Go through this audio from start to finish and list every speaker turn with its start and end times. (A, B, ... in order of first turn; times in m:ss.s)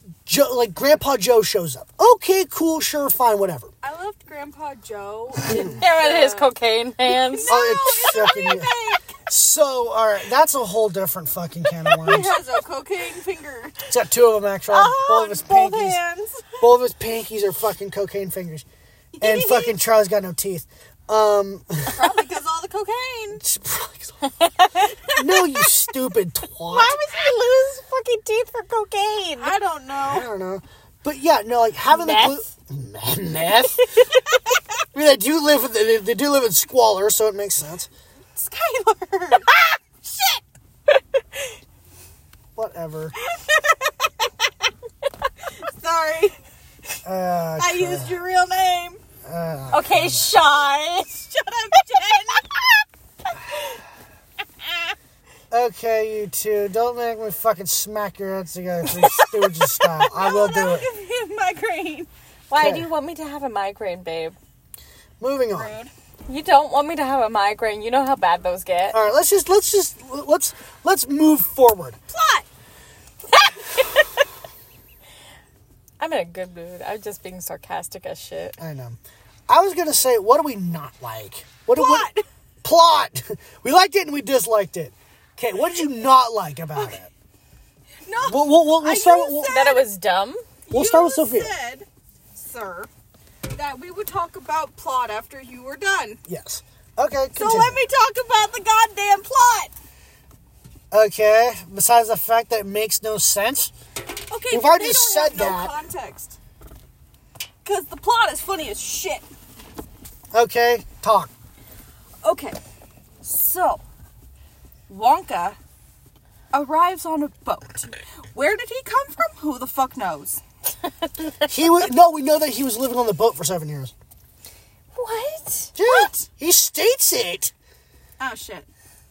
0:00.2-0:03.7 A
0:03.8-0:06.5 B
0:05.4-0:05.8 A
0:05.4-0:07.6 C
0:07.1-0:09.1 B
0:07.5-0:08.7 A
0:09.3-0:12.4 A
0:12.0-0:13.9 B
0:13.9-0:16.0 A
0:14.7-0:16.7 B
0:16.6-0:18.6 A
0:19.1-0:19.8 B
0:19.2-0:22.2 A
0:21.9-0:23.4 B
0:23.4-0:24.2 A
0:24.2-0:25.4 C
0:25.1-0:27.0 A
0:26.7-0:29.5 C
0:29.4-0:30.3 B
0:30.0-0:34.1 A
0:31.9-0:32.4 C
0:34.9-0:37.9 A
0:38.3-0:40.4 B
0:41.1-0:41.5 C
0:42.5-0:43.1 A
0:43.5-0:43.7 B
0:45.6-0:46.4 B
0:47.0-0:48.2 A
0:47.6-0:49.0 B
0:49.2-0:50.4 A
0:49.7-0:51.2 C
0:51.2-0:52.5 B
0:55.5-1:00.9 A
1:00.0-1:02.1 B
1:02.5-1:04.4 C
1:02.6-1:02.9 A
1:05.2-1:05.7 A
1:05.5-1:05.9 B
1:06.3-1:09.0 C
1:08.9-1:12.0 A
1:12.1-1:12.5 B
1:13.3-1:14.0 C
1:16.0-1:18.6 C
1:18.6-1:22.1 A
1:21.7-1:22.2 B
1:22.6-1:27.1 A
1:28.0-1:29.8 B
1:28.2-1:29.5 A
1:29.4-1:30.4 C
1:30.7-1:32.9 B
1:30.7-1:31.5 A
1:33.5-1:36.2 B
1:36.3-1:37.8 A
1:37.4-1:39.7 B
1:40.9-1:43.7 A
1:44.3-1:46.4 B
1:44.5-1:45.7 A
1:47.6-1:49.2 B
1:50.3-1:51.3 A
1:52.2-1:52.6 B
1:53.2-1:53.8 B
1:54.9-1:55.6 B
1:56.5-2:00.4 B
2:01.4-2:03.9 A
2:04.9-2:05.8 C
2:05.8-2:07.5 A
2:05.8-2:06.3 B
2:08.2-2:08.7 B